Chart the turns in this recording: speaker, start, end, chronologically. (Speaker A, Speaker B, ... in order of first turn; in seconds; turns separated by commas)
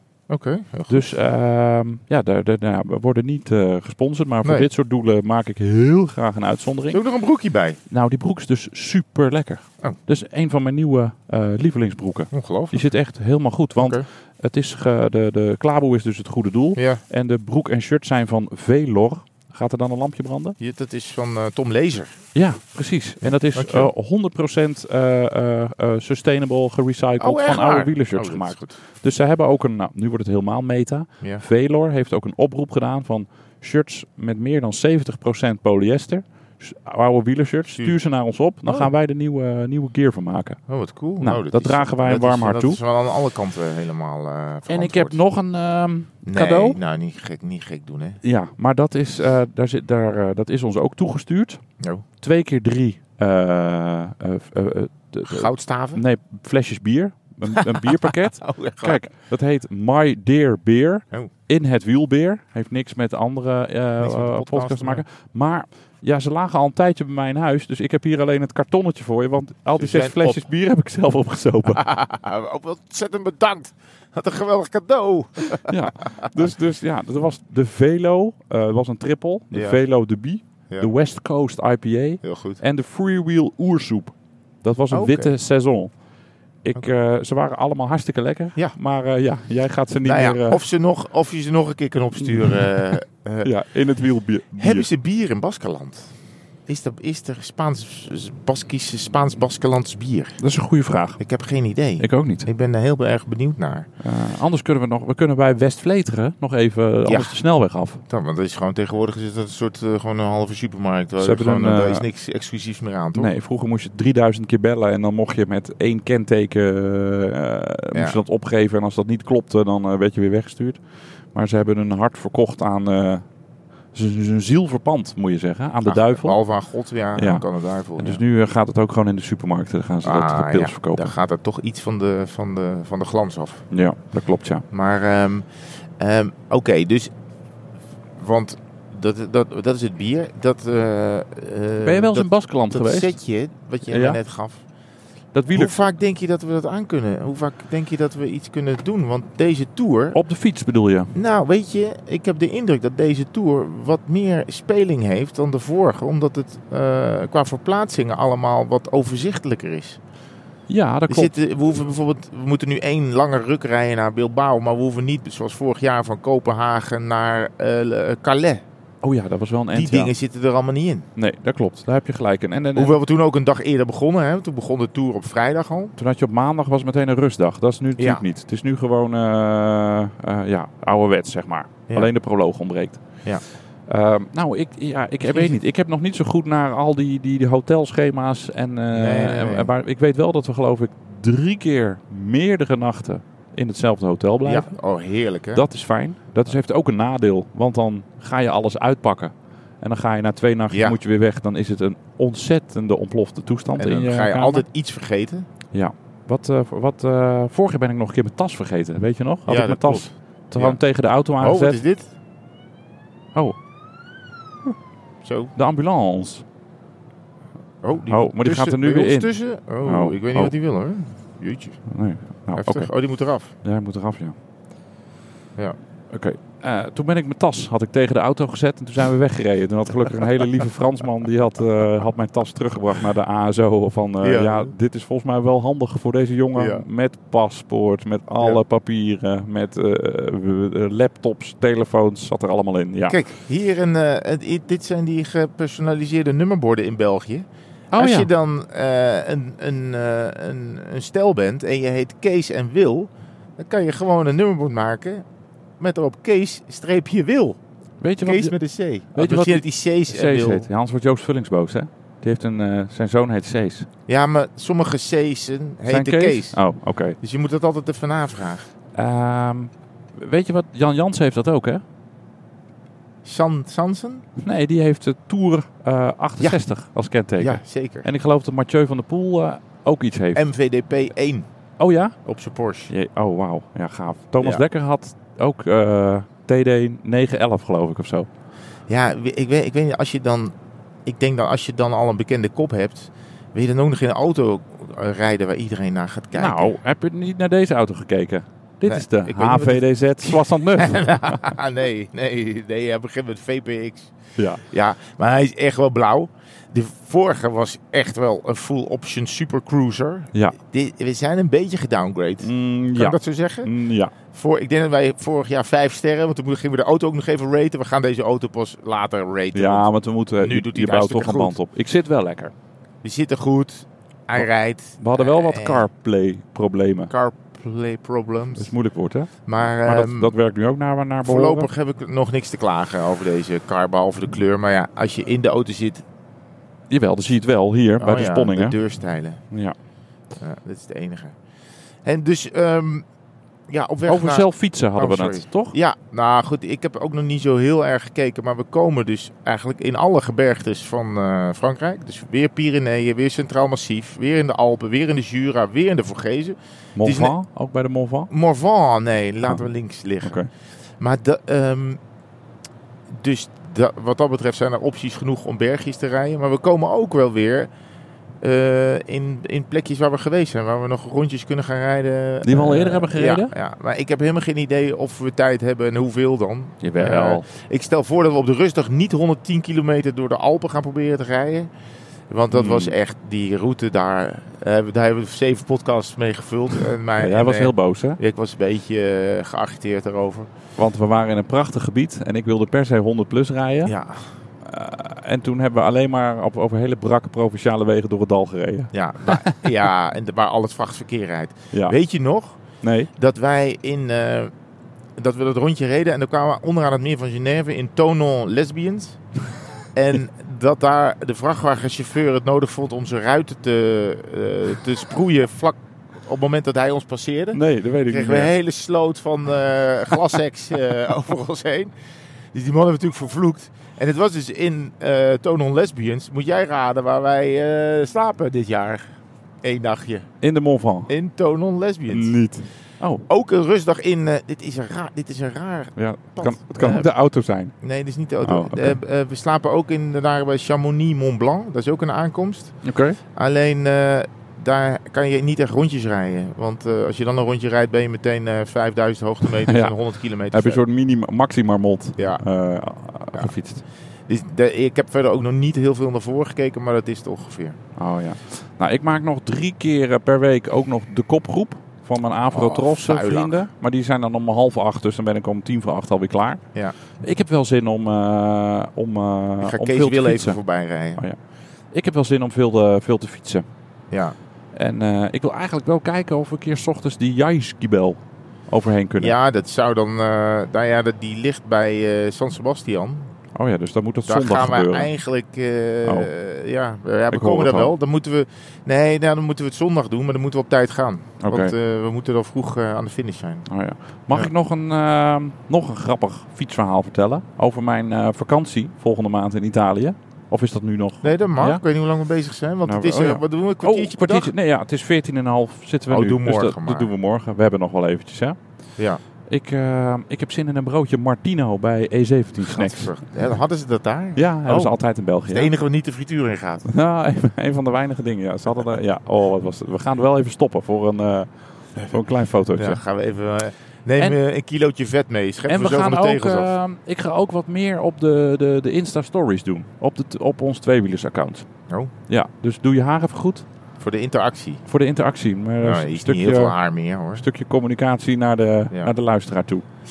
Speaker A: 0.3-1.1, Speaker B: 0.9-7.0, Speaker A: 6.9-7.8, Speaker B: 7.9-20.6, Speaker A: 12.3-12.8, Speaker A: 13.8-14.0, Speaker A: 16.8-17.0, Speaker A: 20.6-22.1, Speaker B: 22.3-40.6, Speaker A: 23.2-23.9, Speaker A: 27.2-28.8, Speaker A: 38.6-38.9, Speaker A: 40.7-45.2, Speaker B: 41.2-42.8, Speaker B: 44.7-46.8, Speaker A: 46.2-48.2, Speaker B: 48.2-51.6, Speaker A: 51.8-52.0, Speaker B: 52.2-71.8, Speaker A: 55.3-56.0, Speaker A: 57.5-59.0, Speaker A: 64.0-65.0, Speaker A: 69.8-70.4, Speaker A: 71.8-76.3, Speaker B: 75.7-85.9, Speaker A: 79.5-79.8, Speaker A: 82.2-82.6, Speaker A: 84.9-85.3, Speaker B: 86.6-90.6, Speaker A: 90.0-93.5, Speaker B: 92.2-94.9, Speaker A: 94.5-96.1, Speaker A: 96.7-100.4, Speaker B: 100.4-101.2, Speaker A: 101.2-103.9, Speaker B: 102.0-102.5, Speaker B: 104.0-108.0, Speaker A: 107.0-107.4, Speaker A: 108.1-113.3, Speaker B: 111.2-112.0, Speaker B: 113.1-120.8, Speaker A: 117.9-118.2, Speaker B: 121.3-123.2, Speaker B: 123.9-126.4, Speaker A: 125.8-128.2, Speaker B: 127.2-131.1, Speaker A: 130.0-133.6, Speaker B: 133.7-134.6, Speaker A: 134.7-135.4, Speaker A: 136.0-137.1, Speaker A: 138.2-144.6, Speaker B: 141.8-143.2, Speaker B: 143.8-144.2, Speaker B: 145.3-145.8, Speaker A: 145.5-150.2, Speaker B: 150.1-151.1, Speaker A: 151.1-160.0, Speaker B: 160.7-161.3, Speaker A: 161.1-168.6, Speaker B: 169.0-170.1, Speaker A: 169.7-171.1, Speaker B: 171.2-173.0, Speaker A: 172.8-175.9, Speaker B: 176.0-183.0, Speaker A: 178.0-178.2, Speaker B: 183.9-194.7, Speaker A: 185.2-185.6, Speaker A: 188.9-189.7, Speaker A: 194.4-195.6, Speaker B: 195.5-204.6, Speaker A: 200.7-201.0, Speaker A: 203.8-205.5, Speaker B: 205.7-211.8, Speaker A: 209.5-210.8, Speaker A: 211.4-212.1, Speaker A: 215.2-215.5, Speaker B: 215.6-216.4, Speaker A: 217.8-221.8, Speaker B: 218.0-220.5, Speaker B: 221.9-222.9, Speaker A: 222.5-223.5, Speaker B: 223.6-224.3, Speaker B: 226.1-243.2, Speaker A: 234.2-234.7, Speaker A: 236.6-236.8, Speaker A: 243.1-247.4, Speaker B: 247.9-248.3, Speaker A: 248.0-255.2, Speaker A: 255.8-257.6, Speaker B: 258.0-263.9, Speaker A: 258.2-260.7, Speaker A: 264.1-266.6, Speaker B: 265.9-267.2, Speaker A: 267.2-268.7, Speaker B: 268.9-271.8, Speaker A: 273.2-274.2, Speaker B: 274.4-280.4, Speaker A: 277.4-278.1, Speaker A: 280.3-281.5, Speaker B: 281.8-282.1, Speaker A: 282.2-282.9, Speaker B: 282.9-288.3, Speaker A: 288.9-290.5, Speaker A: 291.1-296.8, Speaker B: 296.3-301.4, Speaker A: 298.9-304.1, Speaker B: 304.4-304.6, Speaker A: 304.7-313.7, Speaker B: 312.4-314.1, Speaker A: 314.3-319.9, Speaker B: 319.5-322.5, Speaker A: 320.4-321.6, Speaker A: 323.0-325.8, Speaker B: 325.0-327.1, Speaker A: 327.1-328.7, Speaker B: 328.6-331.7, Speaker A: 329.4-330.3, Speaker A: 331.2-336.0, Speaker B: 336.9-338.8, Speaker A: 338.0-339.4, Speaker A: 340.4-341.4, Speaker A: 342.0-343.0, Speaker A: 343.7-357.4, Speaker B: 344.1-345.8, Speaker B: 356.9-358.3, Speaker A: 358.3-360.4, Speaker B: 360.2-360.5, Speaker A: 361.0-362.0, Speaker A: 363.1-367.7, Speaker A: 368.4-381.7, Speaker B: 372.4-373.5, Speaker B: 376.8-377.4, Speaker A: 382.3-390.5, Speaker B: 382.5-382.9, Speaker B: 387.2-388.2, Speaker B: 390.8-393.9, Speaker A: 393.8-394.3, Speaker B: 394.6-399.8, Speaker A: 398.9-402.6, Speaker B: 402.8-403.1, Speaker A: 403.2-404.5, Speaker A: 405.2-409.2, Speaker A: 409.9-421.9, Speaker B: 417.5-418.5, Speaker A: 422.5-429.1, Speaker A: 429.6-430.3, Speaker B: 430.4-431.1, Speaker A: 431.1-432.4, Speaker B: 432.1-433.2, Speaker A: 433.3-437.1, Speaker B: 435.9-437.7, Speaker A: 437.8-442.7, Speaker B: 438.4-439.0, Speaker B: 442.8-443.2, Speaker A: 443.4-450.8, Speaker B: 449.6-449.9, Speaker B: 450.5-453.8, Speaker A: 452.2-452.4, Speaker A: 454.3-457.8, Speaker B: 458.0-466.6, Speaker A: 462.5-463.6, Speaker B: 467.2-470.6, Speaker A: 469.6-471.2, Speaker B: 471.9-473.6, Speaker A: 474.1-474.4, Speaker B: 474.7-479.3, Speaker A: 479.2-483.3, Speaker B: 483.5-485.1, Speaker A: 484.3-493.7, Speaker B: 486.0-486.3, Speaker B: 487.3-487.9, Speaker B: 491.4-491.7, Speaker B: 493.7-501.8, Speaker A: 501.2-504.5, Speaker B: 502.9-508.6, Speaker A: 506.1-507.1, Speaker B: 509.5-513.1, Speaker A: 512.6-515.0, Speaker B: 514.4-515.7, Speaker A: 515.5-516.9, Speaker B: 516.8-523.0, Speaker A: 522.7-526.7, Speaker B: 525.7-531.6, Speaker B: 532.3-533.6, Speaker A: 534.0-534.8, Speaker B: 534.9-536.7, Speaker A: 535.8-537.4, Speaker B: 537.4-539.8